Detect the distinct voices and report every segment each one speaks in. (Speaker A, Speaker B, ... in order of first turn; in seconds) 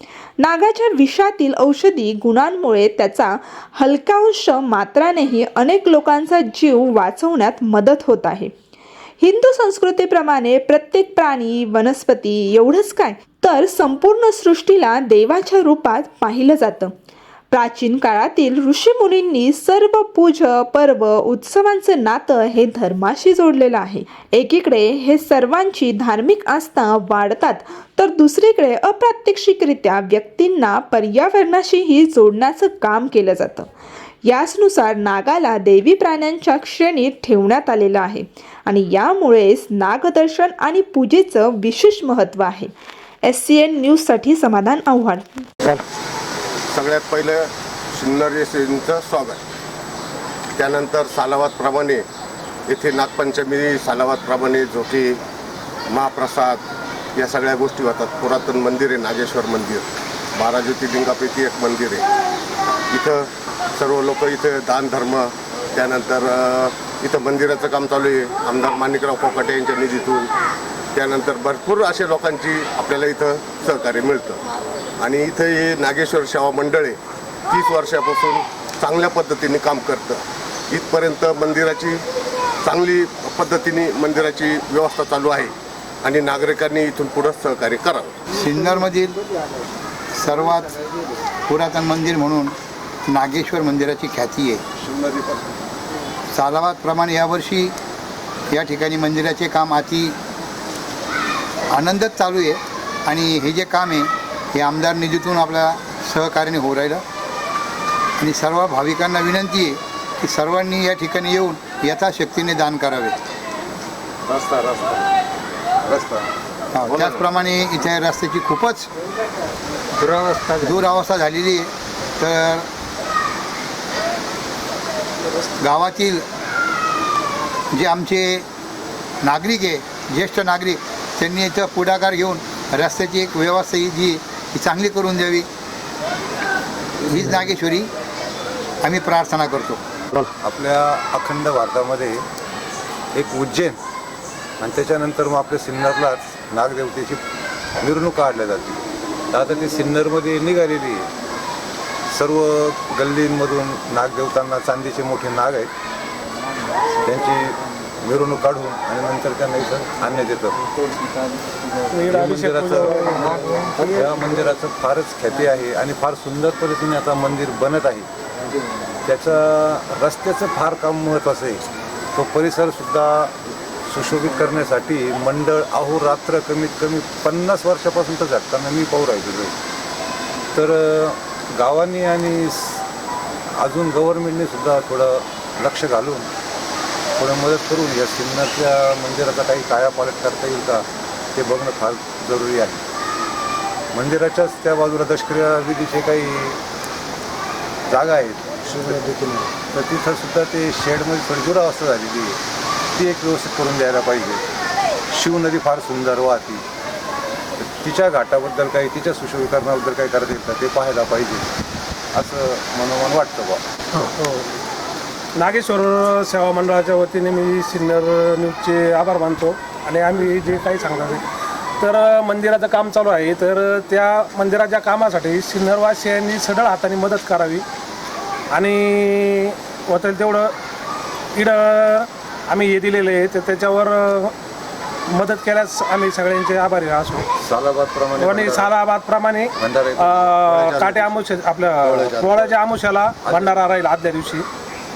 Speaker A: 0.4-8.5, 9.2-16.9, 17.5-33.7, 34.2-42.7, 43.2-45.5
Speaker B: 46.7-49.4, 50.6-52.0, 52.7-55.2, 55.9-56.6, 57.2-62.1, 62.9-70.3, 70.9-74.4, 75.0-82.0, 82.6-88.2, 114.5-115.0, 240.5-241.2, 241.8-242.6
Speaker C: 88.3-89.2, 90.2-90.8, 91.5-92.6, 93.1-94.6, 96.3-97.8, 98.5-100.2, 101.7-107.0, 108.2-113.2, 116.8-118.9, 120.6-122.7, 125.5-126.2, 127.7-128.4, 129.2-135.5, 137.0-137.9, 138.8-139.8
Speaker D: 94.8-95.5, 114.3-114.8, 115.9-116.3, 140.4-142.2, 143.2-143.8, 144.6-147.2, 147.8-151.1, 152.1-155.7, 157.0-160.6, 162.0-163.0, 163.8-168.1, 169.1-173.3, 173.9-179.6, 180.6-182.8, 183.6-186.3, 187.2-192.8, 193.9-196.6, 197.9-202.4, 202.9-204.4, 205.1-206.6, 207.6-211.5, 212.1-213.6, 237.4-238.7, 239.6-240.4, 243.2-243.6
Speaker E: 161.9-163.8, 214.2-214.5, 215.4-221.2, 221.8-227.7, 228.5-230.5, 231.3-234.3, 235.1-237.3, 238.2-244.5